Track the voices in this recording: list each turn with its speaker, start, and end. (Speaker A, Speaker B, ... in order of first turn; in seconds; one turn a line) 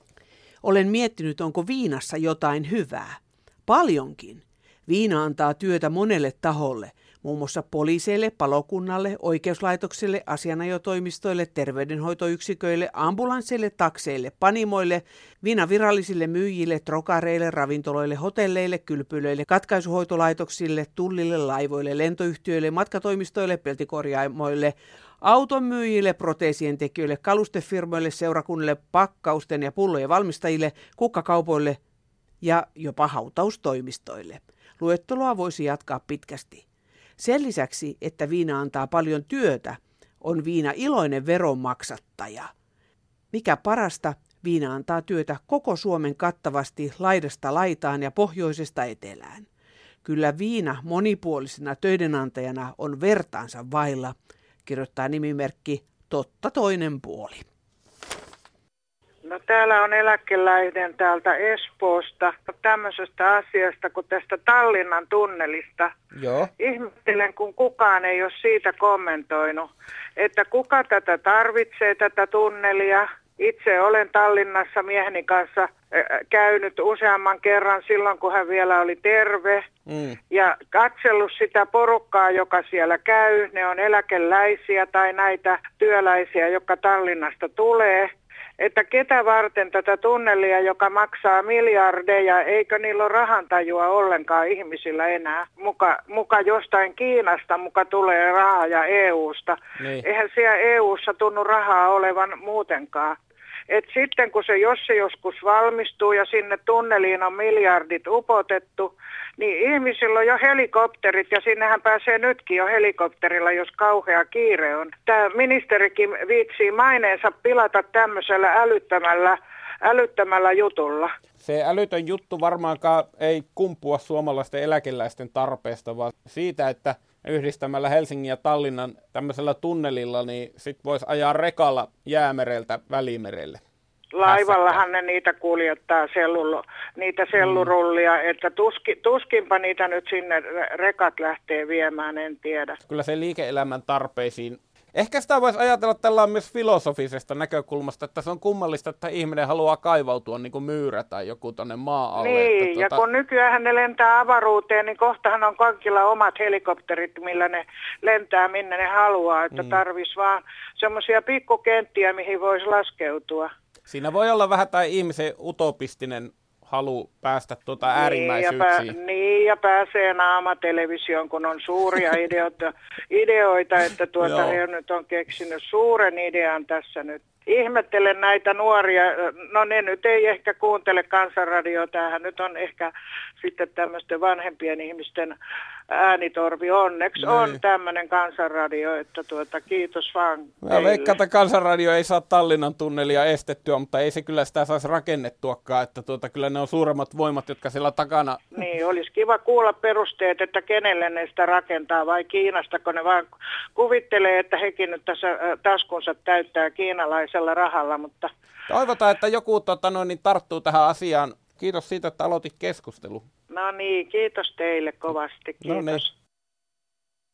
Speaker A: 0.6-31.8
Speaker A: 32.4-36.6
Speaker A: 37.2-42.5
Speaker A: 43.3-49.5
Speaker A: 50.0-54.1
Speaker A: 54.6-57.5
Speaker B: 59.3-65.9
Speaker C: 66.1-66.5
Speaker B: 66.6-79.7
Speaker C: 79.9-80.2
Speaker B: 80.3-103.2
Speaker C: 99.8-100.0
Speaker B: 103.7-121.1
Speaker C: 121.4-133.6
Speaker B: 134.1-142.8
Speaker C: 134.2-134.8
Speaker C: 137.4-137.7
Speaker C: 142.9-153.0
Speaker B: 152.2-163.5
Speaker C: 159.5-159.8
Speaker C: 163.9-168.9
Speaker B: 168.0-185.4
Speaker C: 174.2-174.6
Speaker B: 185.9-191.1
Speaker C: 187.2-187.6
Speaker C: 190.6-198.4
Speaker B: 198.6-208.3
Speaker C: 208.7-213.3
Speaker B: 213.5-216.1
Speaker C: 215.6-216.0